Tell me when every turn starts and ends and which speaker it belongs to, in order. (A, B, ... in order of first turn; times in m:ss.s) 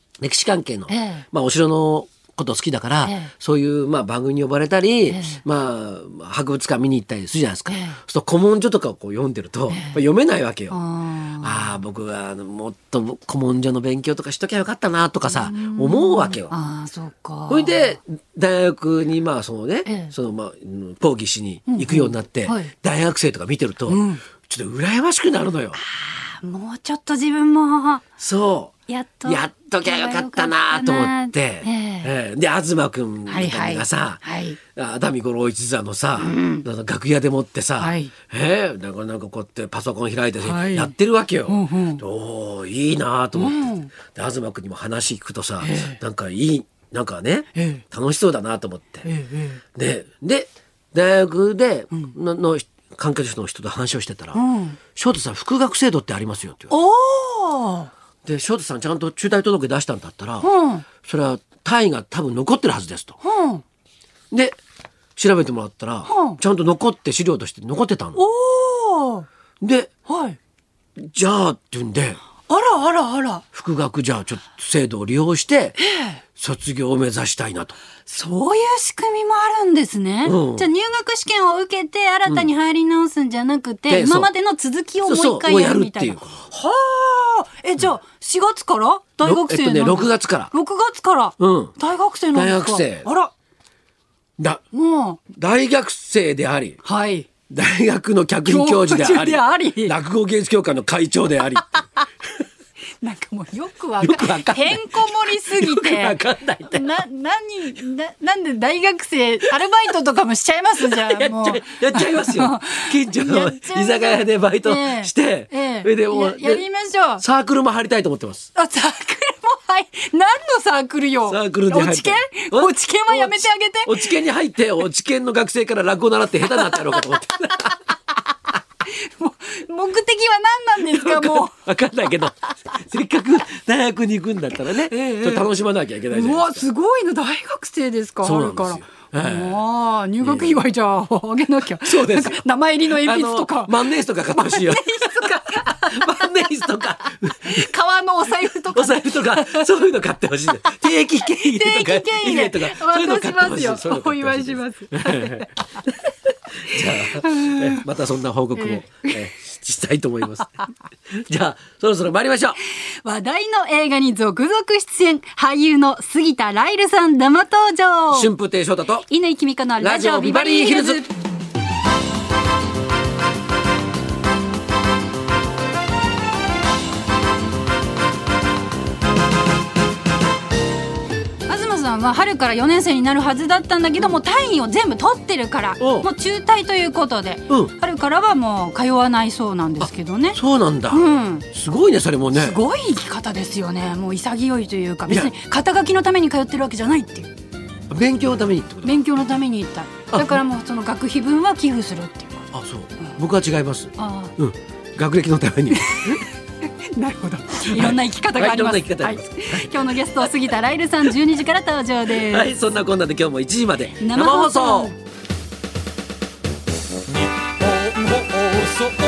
0:00.2-0:10.8 A
0:00.9-0:01.3 B
0:03.0-0:03.3 B
0:05.1-0:05.4 B
0:07.7-0:08.0 B
0:09.7-0:10.0 B
0:10.7-0:11.8 B
0:11.4-0:16.6 A
0:15.3-0:18.0 B
0:17.5-0:25.8 A
0:19.9-0:20.1 B
0:21.7-0:22.7 B
0:23.9-0:24.2 B
0:25.7-0:28.0 B
0:28.2-0:28.7 A
0:28.9-0:32.1 B
0:29.3-0:49.1 A
0:33.3-0:34.6 B
0:36.2-0:36.7 B
0:37.8-0:38.1 B
0:40.4-0:40.9 B
0:41.5-0:42.0 B
0:43.4-0:43.9 B
0:45.6-0:46.0 B
0:47.6-0:47.8 B
0:49.0-0:49.6 B
0:49.7-0:56.8 A
0:54.3-0:54.8 B
0:56.7-0:57.9 B
0:58.2-1:00.5 A
1:00.4-1:00.9 B
1:01.0-1:03.2 A
1:03.2-1:03.6 B
1:04.3-1:04.6 A
1:05.2-1:08.2 A
1:06.1-1:06.4 B
1:08.2-1:09.3 B
1:09.6-1:09.9 A
1:10.1-1:10.4 B
1:11.0-1:12.2 A
1:12.5-1:13.4 B
1:13.5-1:15.8 A
1:15.8-1:16.2 B
1:16.4-1:17.8 A
1:18.1-1:33.3 B
1:20.2-1:20.7 A
1:23.9-1:24.3 A
1:25.0-1:26.5 A
1:29.2-1:30.5 A
1:31.4-1:31.8 A
1:32.3-1:33.1 A
1:34.7-1:35.2 B
1:35.3-1:36.8 A
1:36.8-1:37.3 B
1:37.5-1:41.8 A
1:38.4-1:40.0 B
1:43.0-1:57.2 B
1:44.0-1:47.0 A
1:50.8-1:56.6 A
1:57.2-1:58.5 A
1:58.6-2:04.1 B
2:01.3-2:07.8 A
2:06.6-2:07.0 B
2:09.0-2:11.5 B
2:10.8-2:16.7 A
2:14.9-2:15.5 B
2:16.1-2:29.9 B
2:18.2-2:19.6 A
2:20.2-2:20.6 A
2:21.8-2:27.7 A
2:28.5-2:35.4 A
2:30.5-2:35.8 B
2:36.6-2:42.6 A
2:36.8-2:37.8 B
2:38.6-2:39.2 B
2:43.0-2:48.3 B
2:48.1-2:49.1 A
2:49.1-2:51.1 B
2:49.8-2:51.0 A
3:01.5-3:10.4 B
3:05.8-3:06.1 A
3:07.5-3:07.8 A
3:09.8-3:12.6 A
3:10.9-3:11.5 B
3:12.3-3:17.3 B
3:15.1-3:15.3 A
3:17.9-3:19.0 A
3:18.8-3:22.5 B
3:20.1-3:20.4 A
3:22.5-3:26.2 A
3:24.0-3:24.4 B
3:25.7-3:32.5 B
3:27.7-3:30.3 A
3:32.2-3:34.9 A
3:34.0-3:35.0 B
3:37.8-3:38.2 B